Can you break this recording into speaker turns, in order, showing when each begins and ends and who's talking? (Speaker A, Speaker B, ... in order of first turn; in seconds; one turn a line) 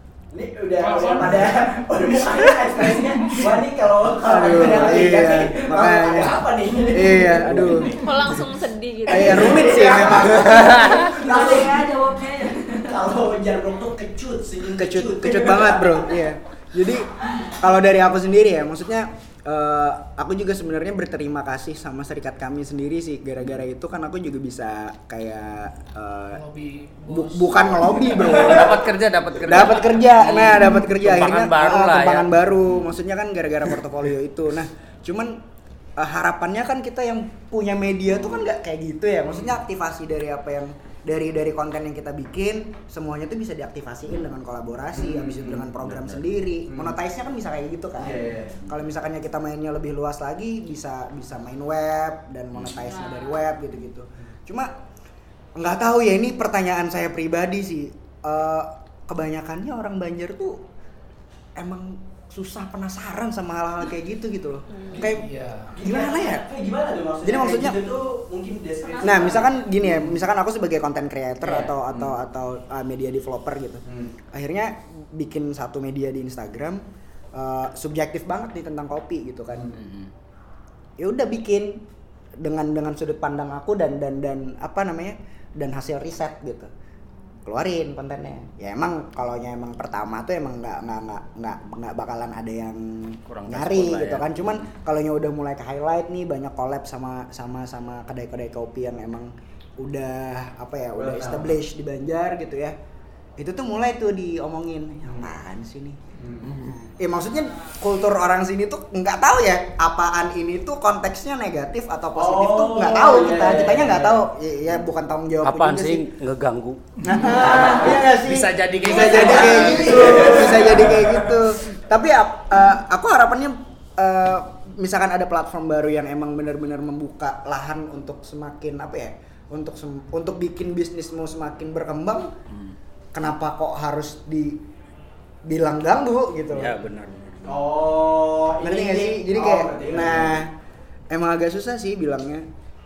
Speaker A: 0.3-8.4
Speaker B: 0.8-1.7
Speaker C: 4.2-8.0
Speaker D: 7.9-9.8
Speaker C: 9.1-10.9
Speaker A: 9.1-12.0
Speaker E: 9.9-12.9
Speaker F: 10.5-11.0
Speaker A: 12.7-16.3
Speaker C: 14.7-26.4
Speaker B: 26.3-28.2
Speaker C: 27.1-35.4
Speaker F: 28.1-32.4
Speaker C: 36.0-54.7
Speaker A: 44.9-45.7
Speaker F: 45.8-46.3
Speaker A: 46.7-47.0
Speaker A: 48.0-48.6
Speaker C: 55.6-60.6
Speaker C: 61.6-66.5
Speaker D: 64.7-65.0
Speaker B: 64.9-65.8
Speaker A: 65.8-70.2
Speaker C: 67.2-67.8
Speaker E: 68.8-69.5
Speaker C: 69.0-76.8
Speaker A: 71.6-72.2
Speaker A: 73.9-74.2
Speaker C: 77.3-79.8
Speaker F: 79.8-80.1
Speaker C: 81.0-81.8
Speaker C: 82.4-86.7
Speaker C: 87.5-102.8
Speaker F: 93.3-94.3
Speaker A: 101.0-101.5
Speaker C: 103.4-106.0
Speaker A: 106.2-106.7
Speaker F: 106.4-106.9
Speaker C: 107.0-116.1
Speaker A: 112.2-114.2
Speaker F: 115.4-120.7
Speaker C: 117.0-132.3
Speaker B: 117.1-117.4
Speaker A: 117.4-118.0
Speaker A: 118.8-121.3
Speaker C: 133.1-134.6
Speaker C: 135.5-136.8
Speaker F: 136.5-137.7
Speaker A: 137.5-140.4
Speaker C: 138.6-140.6
Speaker C: 141.1-142.5